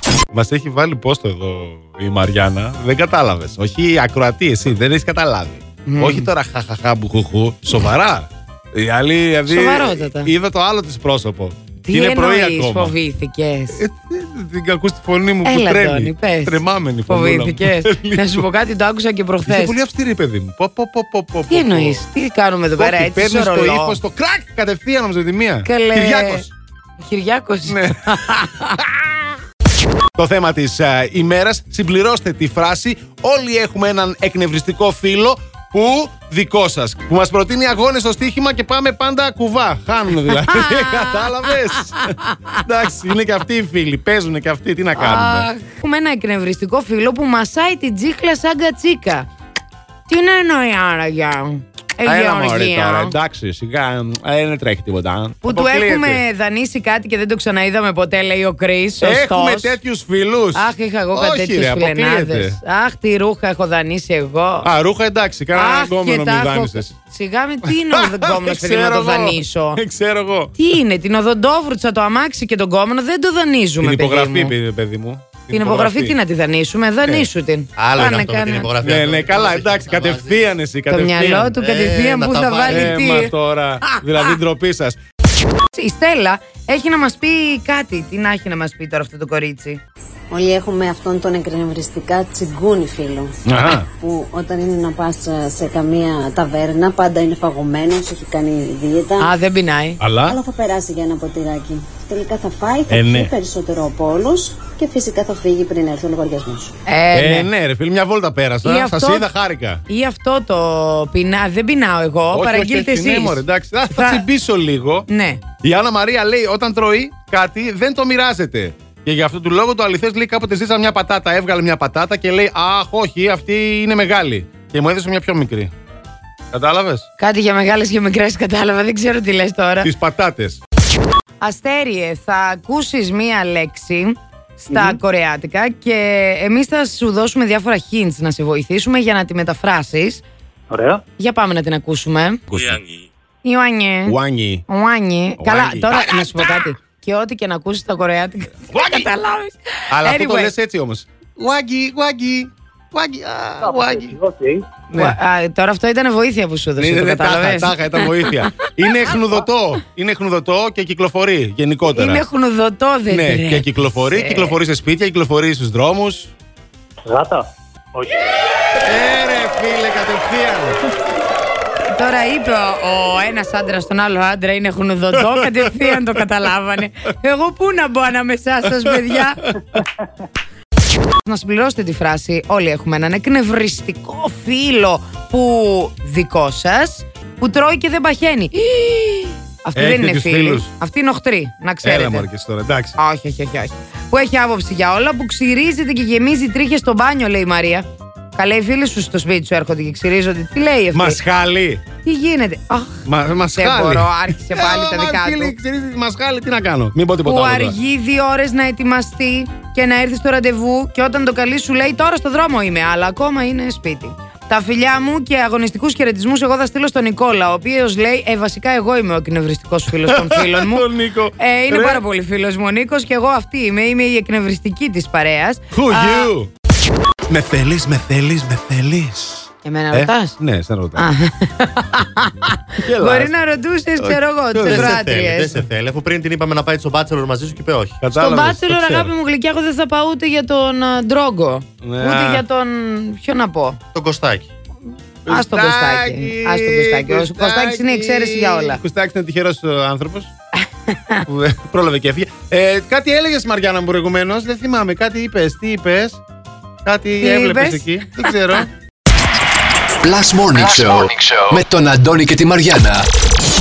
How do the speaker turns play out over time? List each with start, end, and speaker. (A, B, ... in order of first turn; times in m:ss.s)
0:00.3-0:13.0 A
0:05.9-0:06.3 B
0:09.5-0:10.3 B
0:11.8-0:13.8 B
0:13.8-0:18.5 A
0:15.4-0:19.8 B
0:19.5-0:22.0 A
0:21.5-0:24.0 B
0:22.8-0:26.5 A
0:25.6-0:26.4 B
0:27.0-0:28.3 B
0:27.7-0:29.0 A
0:30.2-0:45.5 A
0:40.2-0:42.6 B
0:45.0-0:49.3 B
0:50.1-0:53.2 B
0:52.0-0:56.2 A
0:55.4-0:59.8 B
0:59.0-1:02.6 A
1:00.5-1:04.7 B
1:04.6-1:06.9 A
1:05.5-1:09.8 B
1:07.7-1:10.6 A
1:10.6-1:14.6 B
1:13.8-1:16.2 A
1:15.5-1:18.7 B
1:17.8-1:20.4 C
1:18.8-1:21.6 A
1:20.9-1:24.4 B
1:21.6-1:23.2 C
1:22.6-1:25.0 A
1:25.7-1:29.8 B
1:30.3-1:39.3 D
1:33.5-1:33.9 A
1:39.2-1:40.0 B
1:40.0-1:40.4 A
1:40.3-1:46.7 D
1:42.9-1:43.3 A
1:46.9-1:47.5 B
1:47.1-1:49.8 A
1:48.6-1:49.3 B
1:49.9-1:54.2 B
1:52.3-1:55.1 A
1:55.1-1:55.4 B
1:55.6-2:05.7 A
2:06.5-2:07.1 A
2:07.2-2:09.9 B
2:09.8-2:10.6 A
2:11.4-2:20.2 B
2:14.7-2:15.0 E
2:20.7-2:21.0 E
2:21.2-2:22.4 B
2:22.5-2:23.1 E
2:23.4-2:30.5 B
2:24.1-2:24.6 A
2:25.4-2:26.2 A
2:28.7-2:29.1 A
2:29.9-2:34.2 A
2:33.6-2:34.7 E
2:34.9-2:35.2 A
2:34.9-2:38.7 B
2:36.8-2:42.2 A
2:41.9-2:44.6 B
2:43.1-2:46.3 A
2:47.0-2:48.2 E
2:48.8-2:50.8 A
2:51.9-2:59.5 B
2:55.2-2:56.0 A
2:58.7-2:58.9 A
3:01.2-3:12.3 B
3:09.8-3:10.7 A
3:11.8-3:13.0 A
3:13.0-3:21.2 B
3:20.9-3:21.8 A
3:22.0-3:25.6 B
3:23.0-3:27.8 A
3:27.2-3:46.3 B
3:40.0-3:42.0 A
3:45.7-3:46.5 A
3:47.3-3:51.0 A
3:49.6-3:50.4 B
3:51.0-3:55.6 B
3:52.8-3:53.3 A
3:54.0-3:55.0 A
3:54.7-3:58.0 C
3:58.0-3:59.1 A
3:58.1-4:03.8 B
4:01.8-4:02.4 A
4:03.9-4:04.5 C
4:05.3-4:10.3 A
4:05.3-4:08.8 B
4:10.9-4:11.2 B
4:11.3-4:16.2 A
4:16.8-4:18.7 A
4:17.2-4:18.3 B
4:20.0-4:23.1 F